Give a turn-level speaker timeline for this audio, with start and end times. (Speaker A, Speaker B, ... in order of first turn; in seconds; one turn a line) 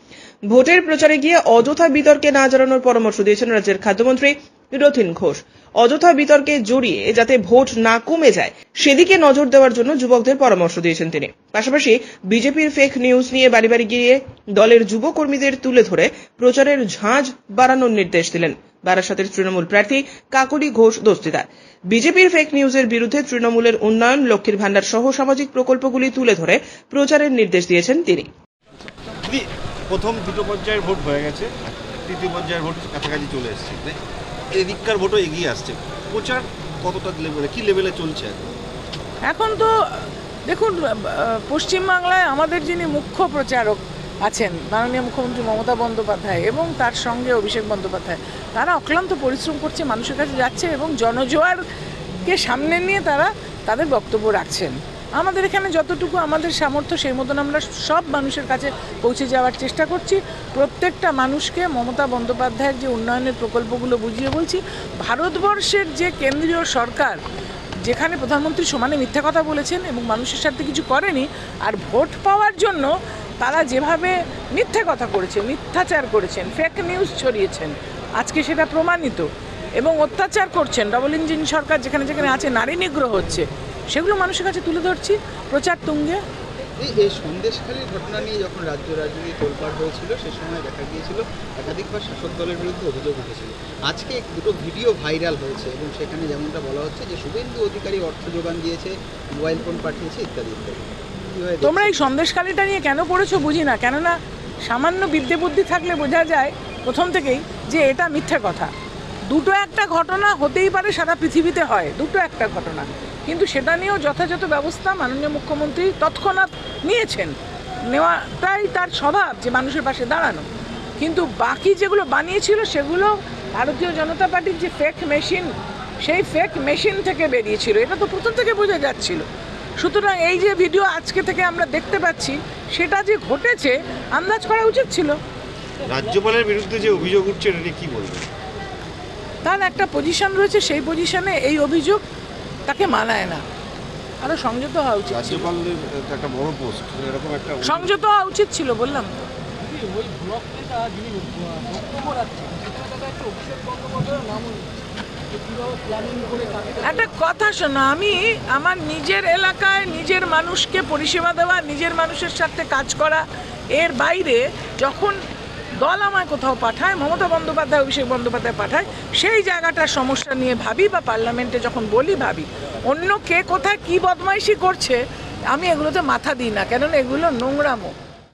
Speaker A: 0.5-28.3
Speaker B: 29.2-34.0
Speaker B: 34.5-38.5
Speaker C: 39.2-39.7
Speaker C: 40.5-51.6
Speaker C: 52.2-67.2
Speaker C: 67.8-79.3
Speaker C: 79.8-86.2
Speaker D: 86.8-102.1
Speaker C: 101.6-108.7
Speaker C: 109.3-117.3
Speaker C: 117.9-120.4
Speaker C: 121.0-125.5
Speaker C: 126.0-129.2
Speaker C: 129.8-135.2
Speaker B: 135.8-138.3
Speaker C: 139.4-142.0
Speaker C: 142.7-143.4
Speaker C: 144.2-145.5
Speaker B: 145.1-147.9
Speaker C: 147.6-149.2
Speaker E: 149.9-154.6
Speaker C: 156.8-165.2
Speaker C: 165.8-175.0
Speaker C: 175.5-177.9